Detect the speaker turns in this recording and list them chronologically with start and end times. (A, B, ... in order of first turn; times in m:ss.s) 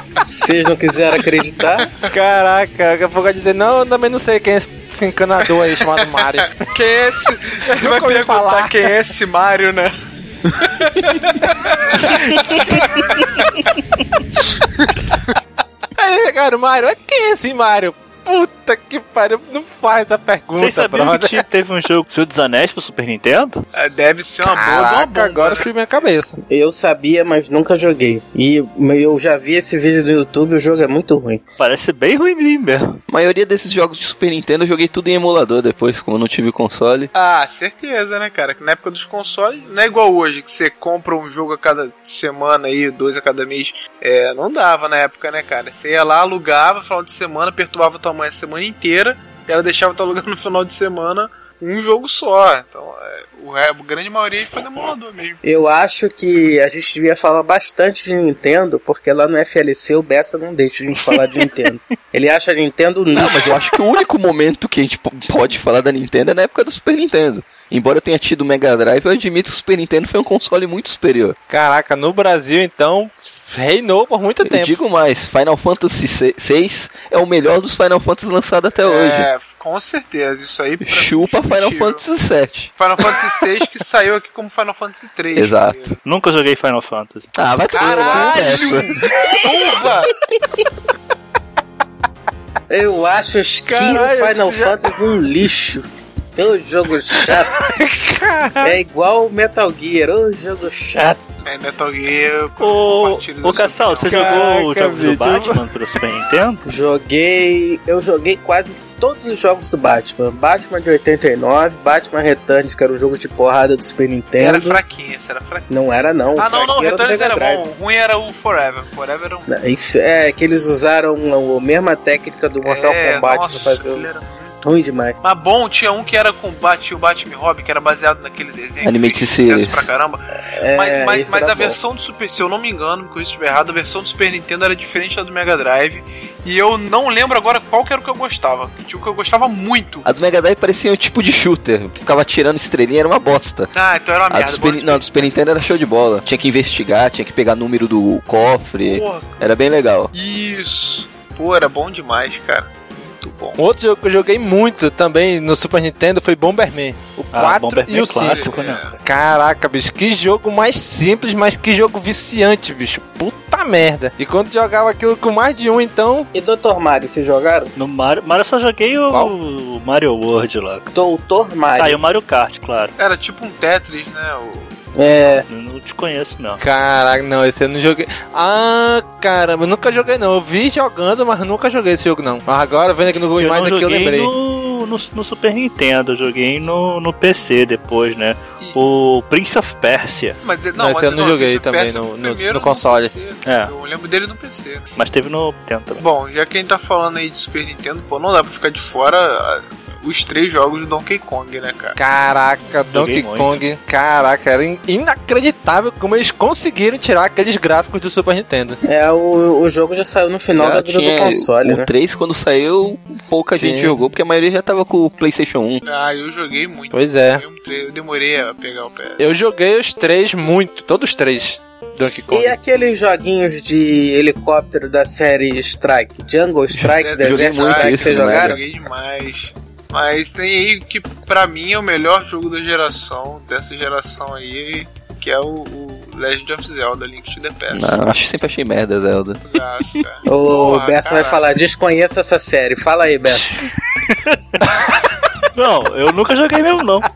0:00.3-0:01.9 A
0:02.1-0:06.6 B
0:06.2-0:09.9 C
0:07.7-0:09.0 B
0:10.8-0:11.4 C
0:11.9-0:13.2 C
0:16.0-0:21.4 B
0:20.5-0:23.6 D
0:23.7-0:25.7 C
0:24.4-0:26.4 B
0:26.5-0:31.4 A
0:31.6-0:33.0 D
0:33.1-0:37.1 E
0:37.1-0:55.4 C
0:55.4-1:03.5 A
1:03.1-1:11.4 E
1:11.5-1:14.8 B
1:14.4-1:19.3 E
1:18.8-1:22.0 C
1:20.8-1:22.7 E
1:22.8-1:26.0 C
1:25.4-1:25.9 E
1:26.0-1:27.3 D
1:27.4-1:29.0 E
1:27.7-1:30.1 C
1:28.0-1:28.7 B
1:32.7-1:35.8 A
1:33.6-1:34.8 B
1:36.4-1:37.7 A
1:37.7-1:38.8 B
1:38.6-1:41.2 A
1:41.4-1:44.5 C
1:42.6-1:46.6 D
1:44.1-1:45.6 B
1:46.6-1:54.8 A
1:54.4-1:55.7 C
1:55.7-1:57.6 A
1:56.4-1:59.4 C
1:59.5-2:04.1 A
2:02.6-2:04.6 C
2:04.6-2:05.2 A
2:05.2-2:20.1 C
2:08.8-2:09.9 E
2:10.6-2:11.8 A
2:20.0-2:23.7 E
2:23.7-2:25.5 C
2:24.3-2:30.1 E
2:28.8-2:29.6 C
2:30.1-2:33.6 C
2:33.6-2:46.3 B
2:37.3-2:38.9 D
2:38.1-2:39.0 C
2:46.3-2:47.7 A
2:47.8-2:50.9 D
2:50.9-2:52.0 A
2:51.7-2:52.9 D
2:53.0-2:54.8 C
2:55.0-2:55.4 A
2:55.5-2:56.6 D
2:56.6-3:04.3 B
3:03.4-3:10.4 D
3:10.4-3:14.9 C
3:10.8-3:13.1 B
3:13.4-3:13.7 D
3:15.0-3:16.0 D
3:16.0-3:22.0 C
3:22.0-3:28.8 B
3:22.9-3:23.6 D
3:28.8-3:31.9 A
3:30.5-3:35.8 E
3:33.5-3:34.0 B
3:35.8-3:39.2 C
3:36.9-3:37.4 B
3:39.2-3:42.6 B
3:42.3-3:48.6 A
3:46.8-3:48.6 E
3:47.0-3:58.0 C
3:57.7-3:59.4 E
3:59.4-4:01.4 C
4:00.3-4:03.7 A
4:03.3-4:04.6 D
4:05.6-4:07.0 D